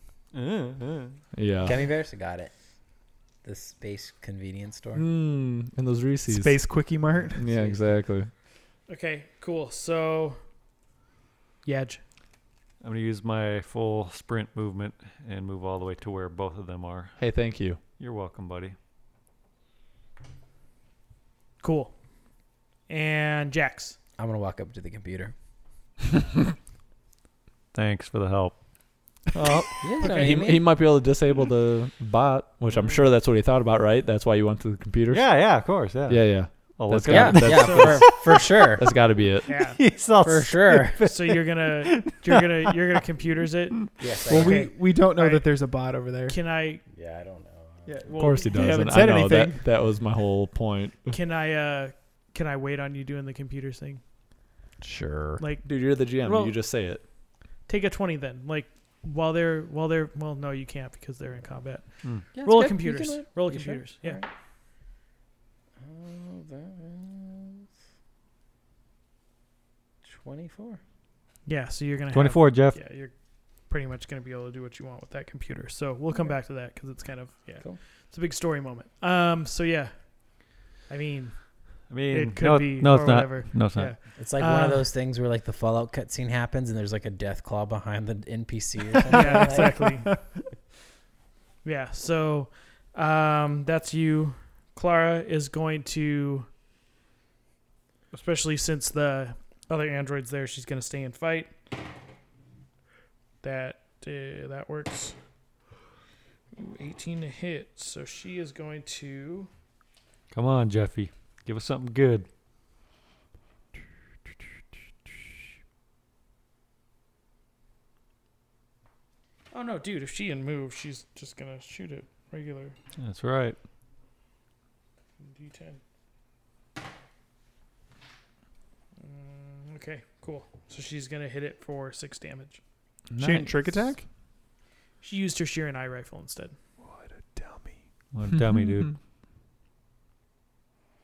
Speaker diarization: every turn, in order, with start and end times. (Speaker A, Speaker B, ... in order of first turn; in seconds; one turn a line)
Speaker A: 0.3-1.2
Speaker B: 1.3-1.8
Speaker C: 1.6-2.5
Speaker C: 3.4-5.0
Speaker B: 4.9-6.6
Speaker D: 6.3-7.4
Speaker B: 7.3-8.3
Speaker C: 7.4-7.8
Speaker E: 8.9-10.4
Speaker E: 11.6-12.0
Speaker A: 12.8-17.2
Speaker B: 17.2-17.8
Speaker A: 18.0-18.8
Speaker E: 21.6-21.9
Speaker E: 22.9-24.0
Speaker C: 24.2-25.3
Speaker A: 27.7-28.6
Speaker B: 29.3-35.5
Speaker C: 29.8-30.6
Speaker E: 30.0-30.3
Speaker A: 35.1-42.7
Speaker B: 36.1-38.2
Speaker C: 37.0-38.9
Speaker B: 38.8-39.6
Speaker E: 39.5-39.8
Speaker C: 40.2-41.0
Speaker E: 41.1-45.5
Speaker C: 44.0-44.7
Speaker D: 44.2-46.4
Speaker E: 46.3-46.8
Speaker C: 46.9-48.1
Speaker D: 47.9-49.6
Speaker B: 48.1-51.1
Speaker E: 51.1-54.0
Speaker C: 54.8-55.4
Speaker E: 55.4-56.5
Speaker B: 55.6-57.0
Speaker E: 57.7-64.2
Speaker C: 62.3-64.3
Speaker C: 65.8-67.7
Speaker C: 70.0-70.8
Speaker E: 71.5-73.1
Speaker A: 72.1-72.8
Speaker E: 73.7-80.0
Speaker E: 80.9-84.9
Speaker A: 81.9-83.9
Speaker C: 84.2-89.9
Speaker E: 89.1-90.1
Speaker D: 89.1-90.3
Speaker E: 91.6-96.5
Speaker E: 98.1-101.5
Speaker E: 103.4-105.2
Speaker E: 106.5-109.5
Speaker A: 110.3-112.3
Speaker E: 119.5-122.7
Speaker A: 123.0-123.5
Speaker E: 125.2-125.8
Speaker E: 129.0-132.6
Speaker B: 133.1-133.9
Speaker D: 133.2-134.0
Speaker E: 135.0-136.6
Speaker D: 136.8-137.8
Speaker A: 138.1-138.9